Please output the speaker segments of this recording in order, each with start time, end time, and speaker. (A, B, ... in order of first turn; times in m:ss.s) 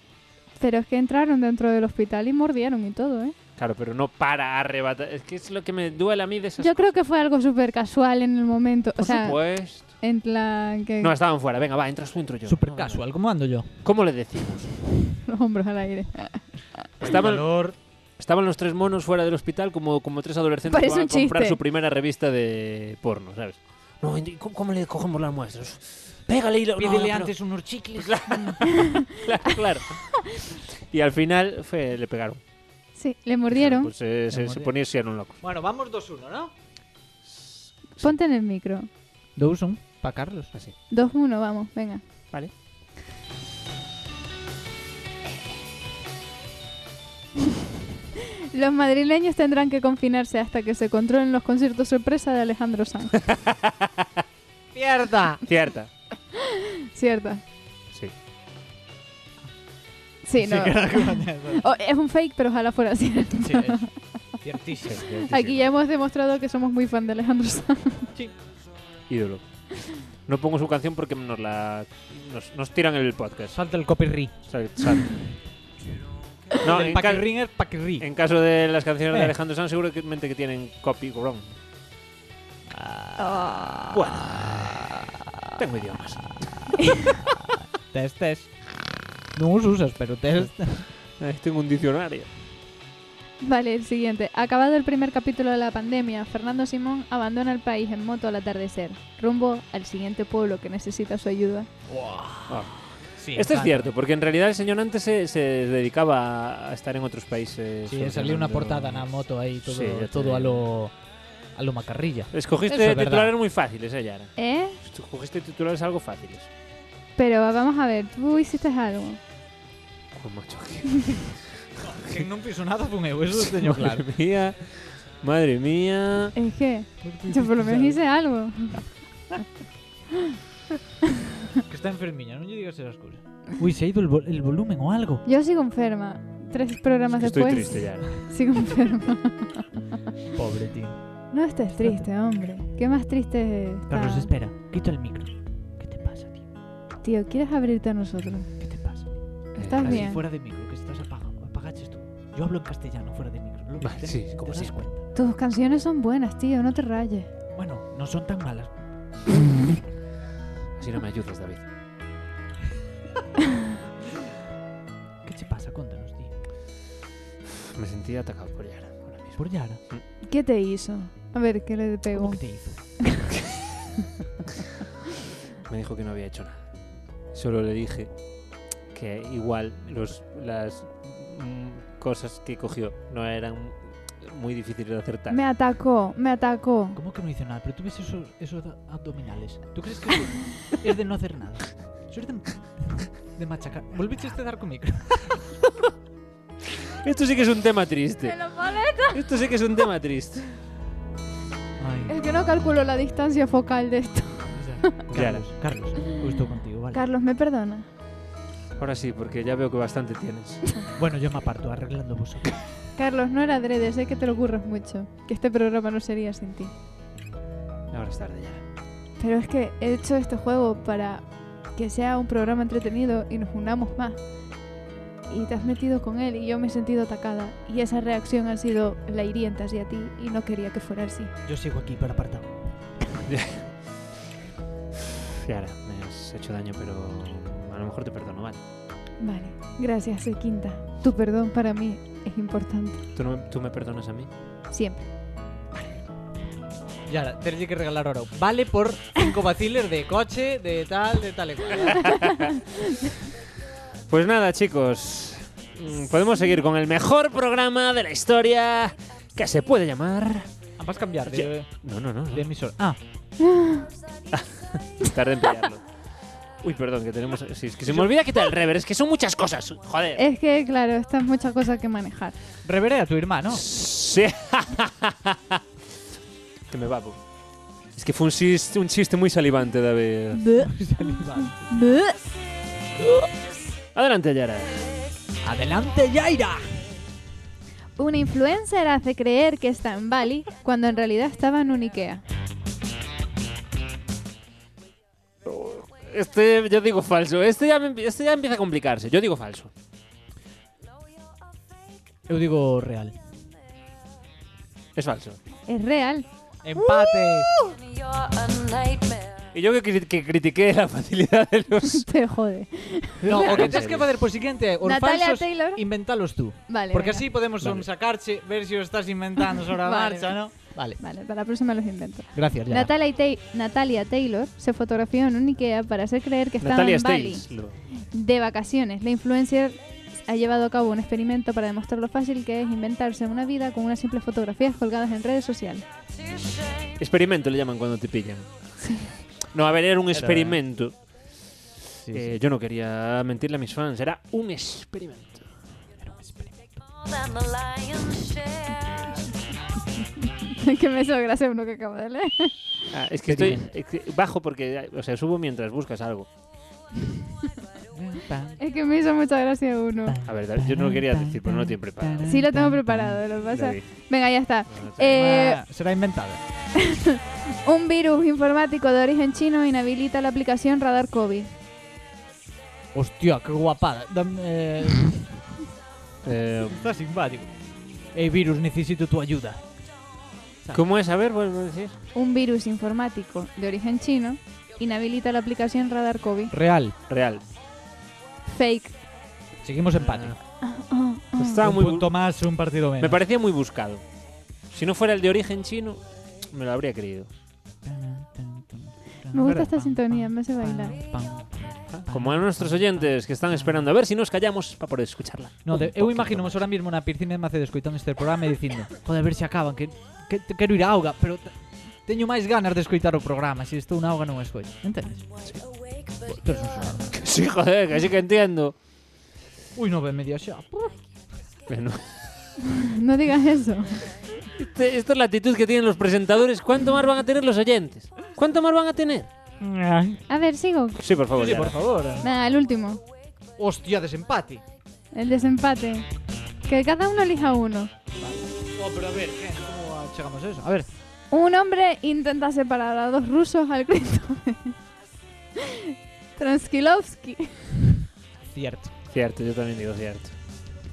0:00.6-0:03.3 A
0:03.6-0:06.9 B
0:06.6-0:11.1 A
0:09.0-0:09.9 B
0:11.0-0:13.0 B
0:12.4-0:13.8 C
0:13.8-0:14.7 B
0:15.2-0:16.5 A
0:17.0-0:17.5 B
0:17.0-0:17.7 C
0:18.2-0:27.3 B
0:20.6-0:21.6 A
0:26.8-0:28.6 C
0:27.9-0:30.0 B
0:28.8-0:29.5 A
0:30.7-0:32.4 B
0:32.9-0:33.9 A
0:33.5-0:35.4 B
0:34.3-0:34.7 C
0:35.4-0:36.5 C
0:37.2-0:38.1 B
0:38.0-0:38.9 A
0:39.4-0:40.5 C
0:40.9-0:42.0 A
0:48.5-0:53.2 A
0:53.2-0:54.2 B
0:54.7-0:55.4 C
0:55.4-0:55.9 B
0:56.3-0:57.4 A
1:00.2-1:03.9 A
1:00.4-1:01.6 C
1:03.4-1:05.0 C
1:04.8-1:05.6 B
1:05.3-1:08.1 A
1:09.1-1:09.4 B
1:10.2-1:13.6 B
1:13.5-1:14.3 C
1:14.5-1:15.2 B
1:16.6-1:18.1 C
1:16.6-1:17.3 B
1:18.0-1:21.5 B
1:19.1-1:19.3 C
1:22.7-1:25.0 C
1:23.9-1:24.7 B
1:25.6-1:26.4 B
1:26.4-1:28.8 C
1:29.3-1:30.9 C
1:31.2-1:32.3 B
1:33.4-1:41.7 A
1:41.9-1:42.6 C
1:42.5-1:42.8 B
1:43.2-1:43.9 C
1:43.3-1:49.1 B
1:47.9-1:50.9 C
1:49.6-1:50.7 B
1:51.6-1:53.3 C
1:52.3-1:56.5 B
1:54.4-1:54.8 A
1:57.2-1:59.2 A
2:00.1-2:02.2 B
2:01.8-2:04.0 C
2:03.3-2:06.4 B
2:06.4-2:08.9 A
2:07.0-2:08.0 C
2:11.7-2:15.2 C
2:15.2-2:19.6 A
2:17.2-2:18.1 B
2:20.3-2:21.0 C
2:21.3-2:24.3 A
2:21.8-2:22.0 C
2:23.9-2:26.4 C
2:27.0-2:28.5 A
2:28.6-2:35.0 C
2:29.5-2:30.1 B
2:29.6-2:30.2 A
2:33.8-2:34.8 B
2:35.1-2:37.3 A
2:37.5-2:38.7 C
2:40.8-2:41.6 B
2:45.2-2:46.3 C
2:47.6-2:50.0 B
2:49.4-2:49.8 C
2:50.2-2:53.0 A
2:52.1-2:52.9 C
2:55.6-2:56.6 B
2:57.3-2:58.1 B
2:58.9-3:05.4 B
3:05.3-3:07.0 A
3:07.0-3:15.4 C
3:16.7-3:20.5 B
3:18.2-3:19.2 A
3:21.8-3:22.2 C
3:22.1-3:25.0 A
3:24.5-3:27.0 C
3:25.1-3:25.5 B
3:26.9-3:27.8 A
3:28.8-3:30.6 B
3:31.0-3:32.6 C
3:33.0-3:36.7 A
3:37.9-3:38.6 B
3:39.2-3:44.2 A
3:45.3-3:51.3 A
3:51.4-3:52.5 C
3:53.2-3:53.7 B
3:55.3-3:58.6 B
3:59.2-4:03.0 A
4:03.1-4:04.3 B
4:04.7-4:05.0 A
4:07.1-4:12.2 C
4:12.0-4:12.4 B
4:14.1-4:20.5 B
4:20.8-4:23.0 C
4:21.3-4:22.4 B
4:23.4-4:23.9 A
4:24.3-4:25.8 B
4:26.6-4:30.2 B
4:30.2-4:32.4 A
4:32.6-4:33.6 C
4:33.5-4:35.6 B
4:36.7-4:37.2 B
4:37.9-4:40.5 B
4:40.3-4:42.2 A
4:40.6-4:41.7 C
4:43.9-4:44.9 B
4:45.4-4:46.7 C
4:48.0-4:52.2 A
4:55.4-4:59.7 B
5:02.3-5:03.1 C
5:04.9-5:05.4 B
5:05.7-5:06.2 A
5:06.6-5:07.6 C
5:06.8-5:07.8 A
5:09.5-5:12.1 B
5:11.8-5:13.7 A
5:13.2-5:21.0 C
5:13.3-5:14.1 B
5:14.8-5:15.8 A
5:16.7-5:17.3 A
5:17.6-5:17.9 B
5:19.6-5:20.4 A
5:21.0-5:27.5 A
5:22.3-5:22.9 C
5:26.6-5:27.8 B
5:28.1-5:35.8 A
5:37.0-5:38.5 B
5:38.8-5:39.1 A
5:39.5-5:40.9 B
5:40.1-5:40.6 C
5:41.9-5:42.3 C
5:42.1-5:45.4 B
5:46.0-5:46.8 C
5:50.4-5:52.5 A
5:52.9-5:56.3 B
5:53.3-5:53.6 C
5:57.9-5:58.6 C
5:58.6-6:00.2 A
6:00.1-6:03.2 C
6:00.2-6:02.3 B
6:02.2-6:05.6 A
6:03.5-6:03.8 B
6:04.7-6:05.2 B
6:05.1-6:06.4 C
6:06.8-6:11.5 A
6:12.9-6:15.4 C
6:16.2-6:16.9 B
6:16.7-6:17.5 C
6:18.1-6:19.6 C
6:20.7-6:21.9 B
6:22.1-6:26.5 A
6:26.5-6:26.9 C
6:27.1-6:27.4 B
6:28.5-6:29.0 A
6:29.6-6:30.4 C
6:30.0-6:30.4 B
6:30.6-6:31.6 A
6:31.4-6:32.1 B
6:31.6-6:33.2 C
6:33.0-6:34.0 B
6:34.7-6:37.3 B
6:37.8-6:43.8 C
6:39.3-6:41.0 A
6:41.9-6:46.7 B
6:45.6-6:51.5 C
6:52.0-6:55.2 C
6:56.2-6:57.1 C
6:57.1-6:58.7 B
6:59.8-7:00.9 C
7:01.7-7:02.2 B
7:02.6-7:04.0 A
7:04.6-7:09.3 B
7:09.6-7:10.2 C
7:10.3-7:11.0 A
7:11.0-7:11.8 B
7:11.3-7:12.3 C
7:12.2-7:13.0 A
7:13.6-7:14.6 C
7:15.1-7:16.0 A
7:16.7-7:17.9 A
7:18.2-7:20.9 C
7:21.3-7:24.8 A
7:25.6-7:27.7 A
7:28.4-7:28.9 C
7:29.1-7:30.3 B